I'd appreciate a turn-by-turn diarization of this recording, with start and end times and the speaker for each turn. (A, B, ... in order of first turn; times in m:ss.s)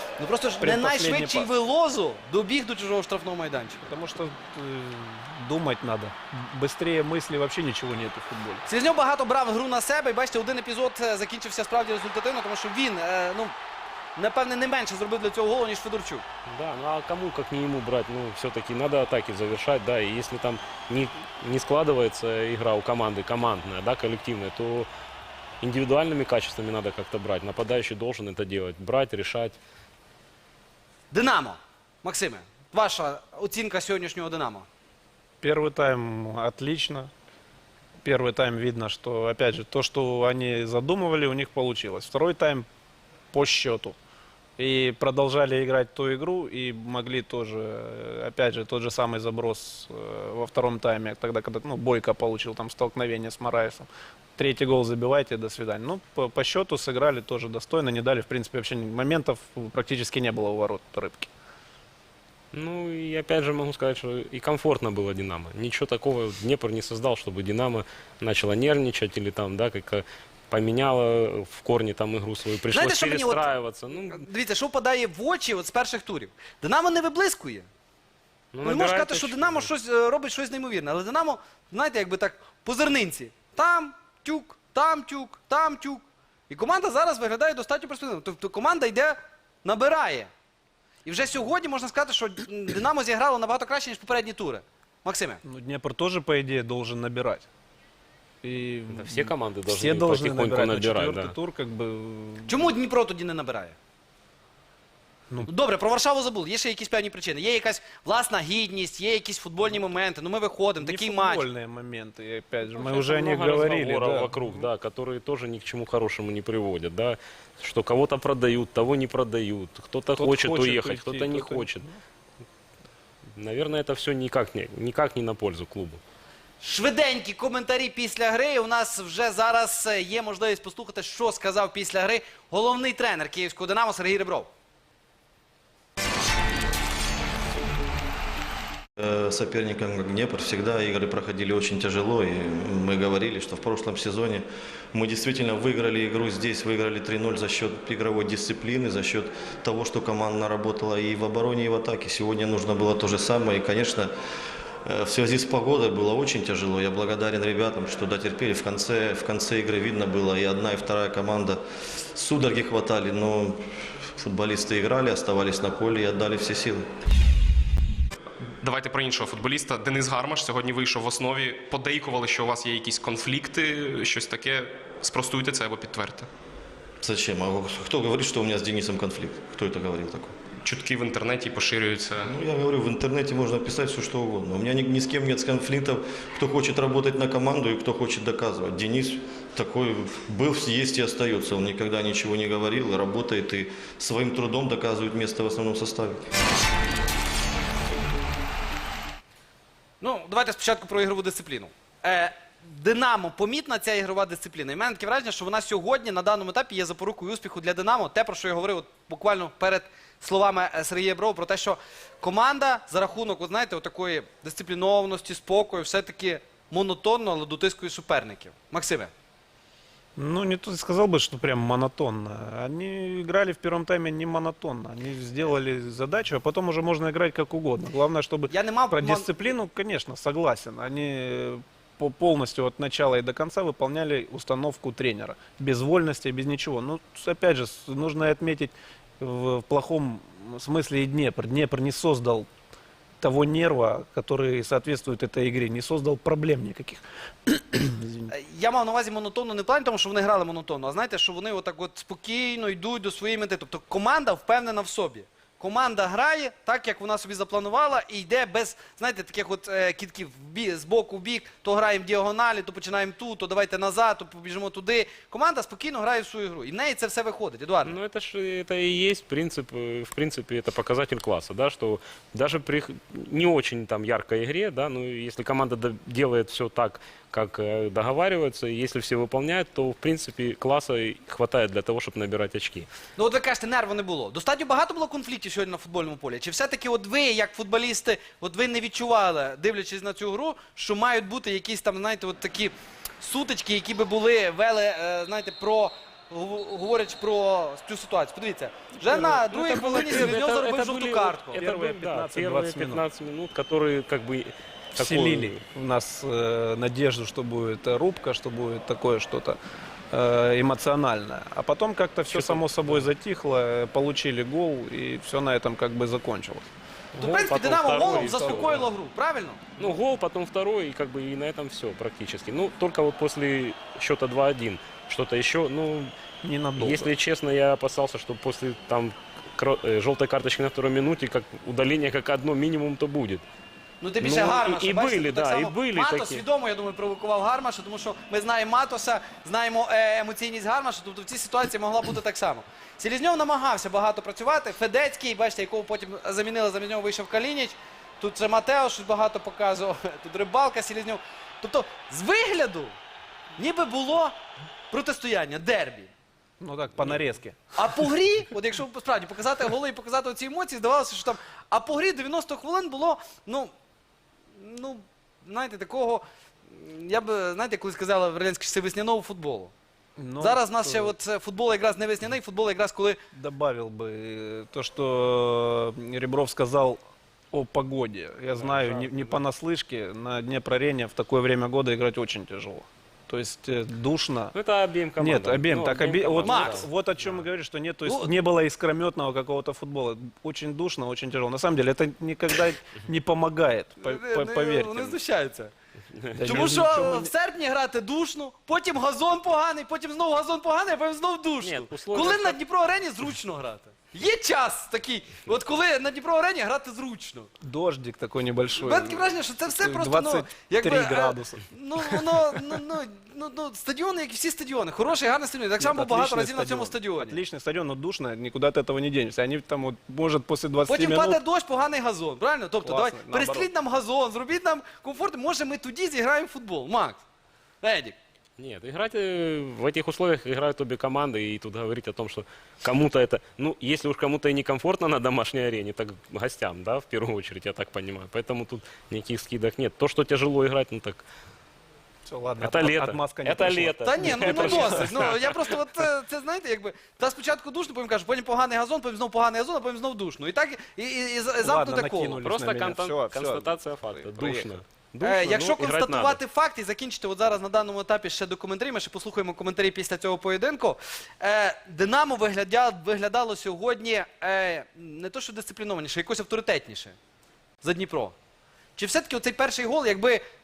0:00.2-0:03.8 A
0:00.6-0:01.5 B
0:03.8-0:08.6 B
0:08.6-0:13.5 A
0:14.2-0:16.2 A
0:16.5-0:24.9 C
0:25.6-0:29.6 C
0:31.1-0:34.6 A
0:35.4-0:37.1 B
0:38.0-0:42.7 B
0:43.3-0:44.0 B
0:44.6-1:01.3 B
1:02.5-1:14.2 C
1:12.7-1:17.7 A
1:18.5-1:19.7 C
1:18.6-1:30.3 A
1:31.0-1:35.4 A
1:35.4-1:37.5 B
1:38.4-1:42.7 B
1:38.9-1:41.3 C
1:42.5-1:43.8 A
1:45.4-1:51.4 A
1:50.8-1:54.7 B
1:52.7-2:01.8 C
2:00.2-2:02.0 B
2:03.3-2:06.0 C
2:06.6-2:14.5 A
2:19.0-2:34.1 D
2:34.8-2:46.8 D
2:48.4-2:56.3 E
2:57.0-3:00.4 D
3:00.6-3:02.3 E
3:02.2-3:16.2 D
3:20.0-3:39.1 A
3:40.2-4:02.5 B
3:48.5-3:49.5 A
4:03.2-4:08.3 B
4:08.3-4:28.0 A
4:27.8-4:42.9 C
4:43.2-5:01.6 A
4:59.0-5:05.5 C
5:01.6-5:03.0 B
5:05.0-5:09.6 B
5:10.1-5:16.7 B
5:12.3-5:13.1 C
5:17.1-5:18.9 C
5:17.2-5:19.6 A
5:19.8-5:26.1 C
5:26.4-5:27.1 B
5:26.8-5:33.4 C
5:34.0-5:52.9 A
5:34.2-5:36.4 C
5:53.6-5:54.4 A
5:54.9-5:56.1 A
5:56.6-5:57.7 B
5:57.7-6:03.7 A
6:04.6-6:09.7 A
6:10.2-6:11.1 B
6:10.4-6:13.2 A
6:13.3-6:17.0 B
6:17.5-6:24.5 B
6:18.5-6:19.4 C
6:24.5-6:27.4 C
6:25.2-6:35.2 B
6:26.4-6:26.8 A
6:28.0-6:28.3 A
6:34.0-6:35.7 A
6:36.3-6:37.3 B
6:36.4-6:47.5 A
6:41.6-6:42.6 C
6:47.6-6:52.5 B
6:48.8-6:57.4 A
6:55.8-7:01.4 B
7:00.9-7:07.2 A
7:02.8-7:03.7 B
7:07.8-7:08.2 A
7:08.6-7:21.2 C
7:22.2-7:25.1 B
7:22.6-7:25.6 C
7:24.0-7:32.4 A
7:31.6-7:34.7 B
7:32.4-7:36.4 C
7:35.2-7:47.2 A
7:47.8-7:48.3 A
7:49.0-7:50.4 A